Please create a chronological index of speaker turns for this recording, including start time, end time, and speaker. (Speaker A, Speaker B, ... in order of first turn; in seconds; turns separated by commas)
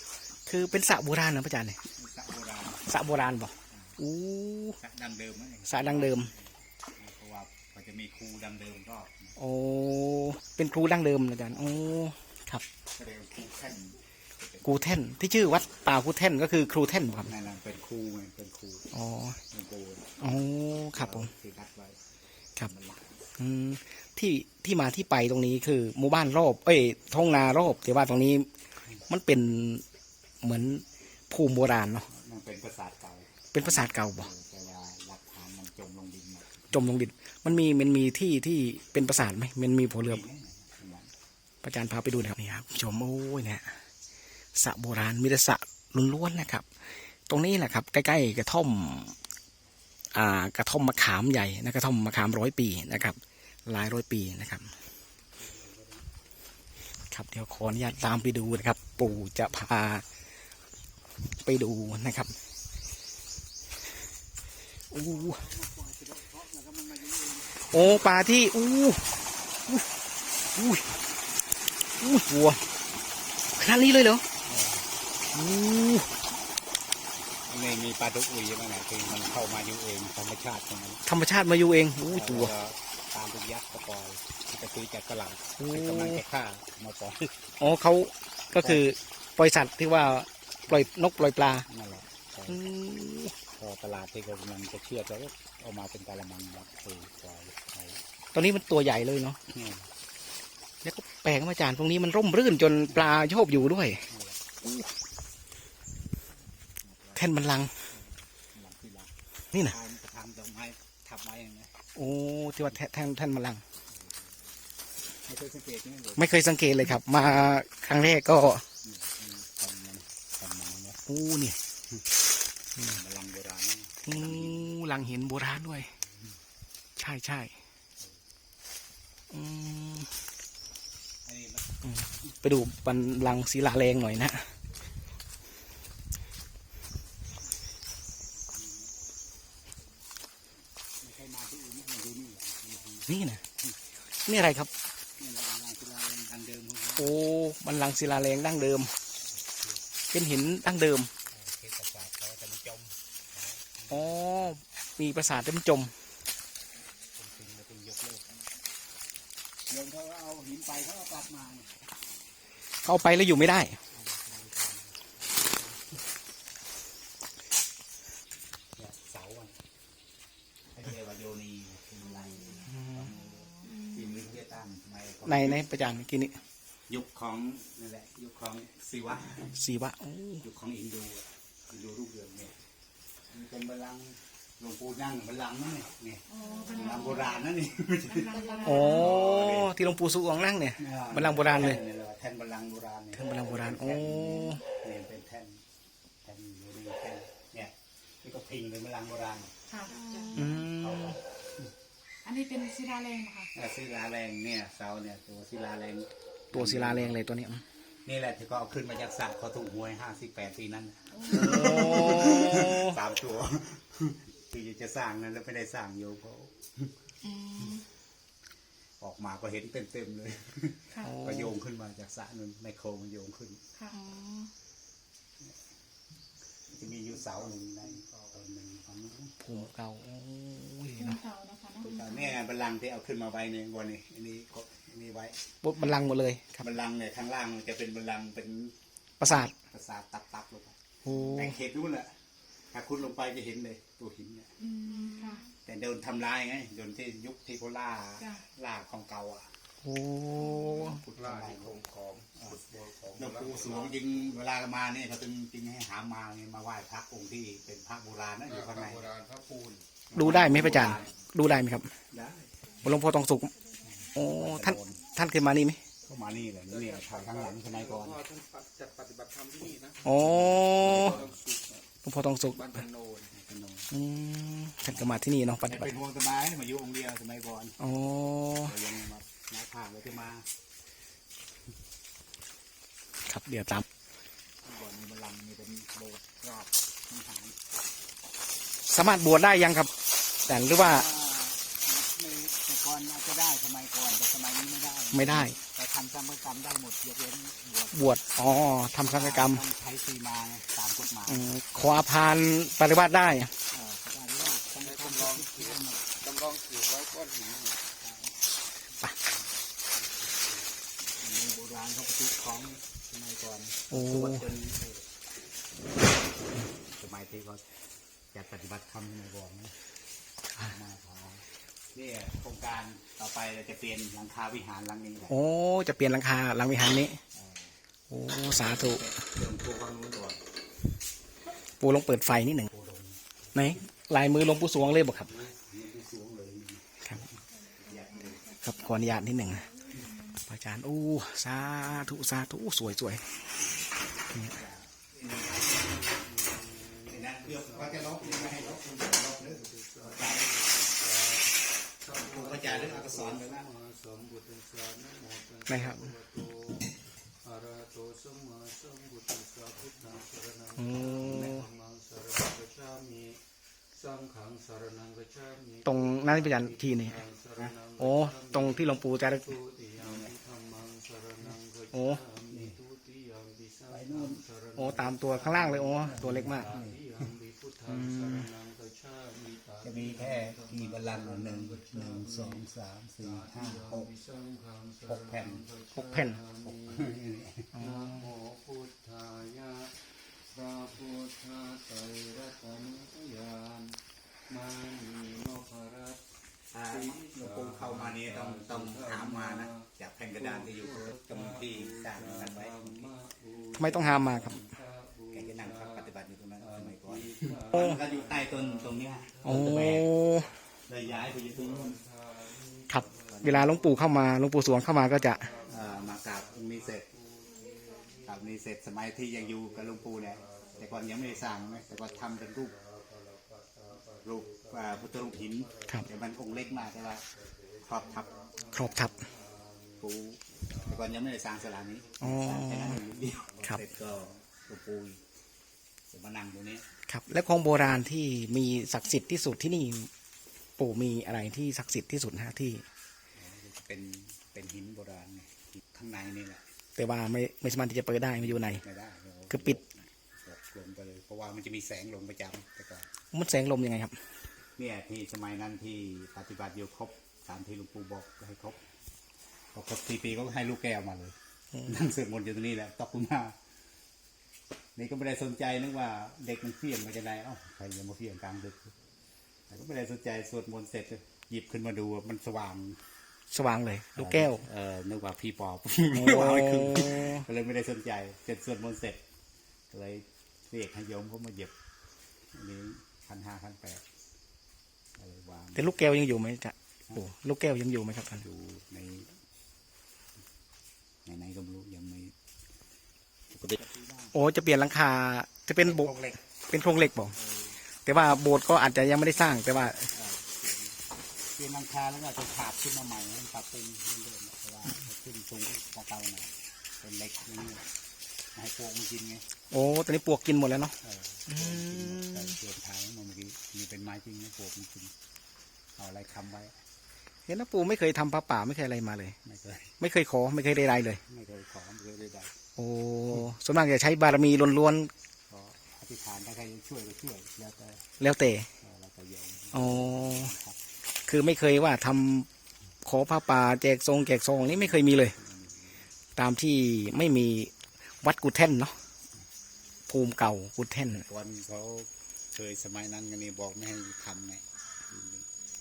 Speaker A: 0.5-1.8, Speaker B: 2.0-2.9, Speaker A: 2.9-4.8, Speaker B: 4.8-9.4, Speaker A: 5.7-6.3, Speaker A: 9.4-12.6, Speaker B: 12.9-15.0, Speaker A: 14.6-17.3, Speaker B: 17.2-18.9, Speaker A: 18.9-19.4, Speaker B: 19.5-20.2, Speaker A: 20.2-21.3, Speaker B: 20.9-22.0, Speaker B: 22.6-23.3, Speaker A: 23.4-28.5, Speaker A: 29.1-29.8, Speaker A: 30.4-32.1, Speaker B: 32.1-36.8, Speaker A: 33.5-34.3, Speaker A: 36.7-40.2, Speaker B: 40.0-41.1, Speaker A: 41.6-43.8, Speaker A: 44.5-49.2, Speaker A: 50.1-54.7, Speaker B: 55.4-56.1, Speaker A: 57.1-60.0, Speaker A: 61.4-62.4, Speaker A: 64.9-65.4, Speaker B: 65.1-68.0, Speaker A: 67.7-69.2, Speaker A: 70.5-70.9, Speaker A: 72.0-72.6, Speaker A: 73.6-74.2, Speaker B: 74.5-74.9, Speaker A: 75.3-76.1, Speaker B: 77.5-81.0, Speaker A: 81.1-82.5, Speaker B: 82.1-87.4, Speaker A: 85.6-86.2, Speaker A: 87.6-91.7, Speaker B: 88.6-88.9, Speaker B: 91.7-92.6, Speaker A: 92.5-93.3, Speaker B: 93.6-98.0, Speaker A: 98.3-99.4, Speaker B: 99.5-99.9, Speaker A: 100.8-104.1, Speaker B: 104.1-104.4, Speaker A: 104.6-104.9, Speaker B: 106.8-107.4, Speaker A: 107.2-107.7, Speaker B: 107.9-111.7, Speaker A: 112.0-113.6, Speaker B: 113.9-114.4, Speaker B: 115.3-116.4, Speaker A: 116.2-118.7, Speaker B: 118.8-121.0, Speaker A: 121.1-121.6, Speaker B: 122.9-124.7, Speaker A: 124.1-125.9, Speaker A: 127.0-127.5, Speaker A: 129.3-130.1, Speaker B: 131.2-131.7, Speaker A: 131.8-134.5, Speaker B: 138.5-139.0, Speaker B: 141.0-143.1, Speaker A: 143.1-143.4, Speaker A: 144.3-144.7, Speaker B: 145.2-147.1, Speaker A: 147.0-148.9, Speaker B: 149.3-149.8, Speaker A: 150.1-151.1, Speaker B: 151.3-154.5, Speaker A: 153.9-155.9, Speaker B: 157.2-158.4, Speaker B: 159.7-161.7, Speaker A: 162.8-163.8, Speaker B: 163.9-166.0, Speaker B: 168.8-169.6, Speaker B: 170.7-175.7, Speaker A: 175.2-176.4, Speaker B: 176.9-179.5, Speaker A: 179.6-180.4, Speaker B: 180.4-182.5, Speaker B: 183.3-189.8, Speaker C: 186.3-187.4, Speaker C: 188.1-189.1, Speaker A: 188.6-191.8, Speaker B: 190.8-195.6, Speaker A: 193.2-194.6, Speaker B: 196.2-199.5, Speaker C: 199.7-200.5, Speaker A: 200.3-201.2, Speaker B: 200.3-201.2, Speaker C: 202.2-203.5, Speaker B: 203.5-207.2, Speaker A: 206.5-207.6, Speaker B: 208.1-216.9, Speaker C: 211.2-211.7, Speaker A: 211.2-213.0, Speaker C: 217.2-217.8, Speaker B: 219.0-223.6, Speaker A: 221.0-221.5, Speaker C: 223.8-224.5, Speaker B: 226.7-229.6, Speaker A: 229.4-231.2, Speaker C: 230.9-232.3, Speaker B: 231.8-235.4, Speaker A: 235.6-236.6, Speaker B: 236.6-242.1, Speaker A: 239.2-239.5, Speaker A: 241.1-241.6, Speaker B: 242.7-244.5, Speaker C: 244.6-245.5, Speaker B: 245.7-249.5, Speaker A: 249.8-251.0, Speaker B: 250.7-259.1, Speaker D: 251.8-252.1, Speaker D: 259.1-259.8, Speaker B: 260.1-261.1, Speaker A: 260.1-261.9, Speaker B: 262.1-262.5, Speaker A: 262.8-265.8, Speaker B: 264.2-265.0, Speaker B: 266.1-268.3, Speaker D: 268.2-270.0, Speaker A: 270.0-271.2, Speaker B: 270.6-271.3, Speaker D: 271.1-271.6, Speaker A: 272.0-272.9, Speaker D: 272.9-273.3, Speaker B: 273.3-273.9, Speaker A: 273.9-275.9, Speaker B: 274.9-277.9, Speaker A: 277.8-278.8, Speaker B: 278.6-280.4, Speaker A: 283.3-283.9, Speaker B: 284.6-287.6, Speaker A: 288.9-289.9, Speaker A: 290.4-291.1, Speaker B: 290.5-298.2, Speaker A: 295.1-295.6, Speaker A: 297.9-299.6, Speaker B: 299.0-301.5, Speaker A: 301.3-303.5, Speaker B: 303.7-306.1, Speaker D: 306.2-307.7, Speaker B: 308.0-308.4, Speaker B: 309.2-310.6, Speaker B: 311.2-315.1, Speaker A: 313.9-314.5, Speaker B: 317.0-317.6, Speaker B: 318.3-319.7, Speaker B: 320.6-325.4, Speaker A: 325.3-327.2, Speaker B: 327.3-327.8, Speaker A: 328.1-329.1, Speaker B: 328.6-330.4, Speaker A: 331.8-332.7, Speaker B: 332.7-333.2, Speaker A: 333.6-335.4, Speaker B: 335.3-338.4, Speaker A: 338.5-343.2, Speaker B: 344.4-346.3, Speaker D: 346.2-347.0, Speaker B: 346.9-350.7, Speaker D: 347.9-351.3, Speaker B: 352.1-353.7, Speaker D: 352.4-353.1, Speaker D: 353.7-356.3, Speaker A: 355.7-356.1, Speaker D: 357.6-360.4, Speaker A: 360.8-361.7, Speaker B: 361.1-361.7, Speaker D: 361.4-363.3, Speaker D: 364.1-365.5, Speaker A: 365.9-367.2, Speaker A: 368.0-369.6, Speaker B: 370.0-370.3, Speaker D: 370.1-371.7, Speaker A: 371.9-372.2, Speaker B: 372.5-372.8, Speaker D: 373.1-373.7, Speaker B: 373.9-374.4, Speaker A: 374.8-376.8, Speaker B: 376.0-377.1, Speaker A: 377.9-378.5, Speaker D: 379.3-379.6, Speaker B: 379.8-384.1, Speaker B: 385.0-385.8, Speaker A: 385.9-386.4, Speaker B: 386.5-387.8, Speaker A: 387.7-388.3, Speaker D: 388.4-389.9, Speaker D: 390.6-393.9, Speaker D: 394.6-396.1, Speaker B: 396.7-403.1, Speaker D: 403.1-403.4, Speaker A: 403.7-404.6, Speaker B: 405.3-410.1, Speaker A: 409.4-410.5, Speaker B: 410.9-412.0, Speaker A: 412.9-415.5, Speaker B: 413.3-413.8, Speaker D: 415.5-415.7, Speaker B: 415.7-417.1, Speaker D: 417.5-418.1, Speaker B: 418.2-422.8, Speaker B: 424.2-427.2, Speaker D: 425.7-426.2, Speaker B: 427.8-428.5, Speaker D: 428.4-429.3, Speaker A: 428.7-429.1, Speaker B: 430.0-435.2, Speaker A: 432.2-433.0, Speaker B: 436.1-436.9, Speaker A: 437.1-440.1, Speaker A: 440.8-442.8, Speaker B: 443.4-446.6, Speaker A: 447.0-448.8, Speaker B: 448.4-449.9, Speaker A: 449.5-449.8, Speaker B: 450.4-453.1, Speaker A: 453.3-454.2, Speaker B: 454.8-458.8, Speaker B: 459.7-463.6, Speaker B: 465.0-468.9, Speaker B: 469.7-473.0, Speaker A: 473.5-474.6, Speaker B: 474.2-479.2, Speaker A: 476.1-477.5, Speaker B: 479.9-481.7, Speaker B: 482.5-484.0, Speaker B: 485.2-486.0, Speaker A: 485.8-488.5, Speaker B: 488.4-489.3, Speaker B: 491.2-492.3, Speaker B: 493.5-494.4, Speaker A: 494.3-496.2, Speaker B: 495.8-496.4, Speaker A: 496.7-497.4, Speaker B: 497.4-497.8, Speaker A: 498.1-500.1, Speaker B: 500.1-501.0, Speaker B: 501.5-507.9, Speaker B: 508.6-509.4, Speaker A: 509.7-510.9, Speaker B: 511.0-515.1, Speaker A: 511.5-512.6, Speaker B: 516.0-516.8, Speaker A: 517.5-519.4, Speaker B: 519.4-520.0, Speaker A: 520.0-521.2, Speaker B: 521.2-522.5, Speaker A: 522.8-525.1, Speaker B: 525.5-528.0, Speaker A: 528.2-528.7, Speaker B: 528.8-530.8, Speaker A: 529.7-530.5, Speaker A: 531.3-532.5, Speaker A: 533.0-535.4, Speaker B: 534.7-536.1, Speaker A: 536.4-539.0, Speaker A: 540.1-541.3, Speaker B: 541.2-545.5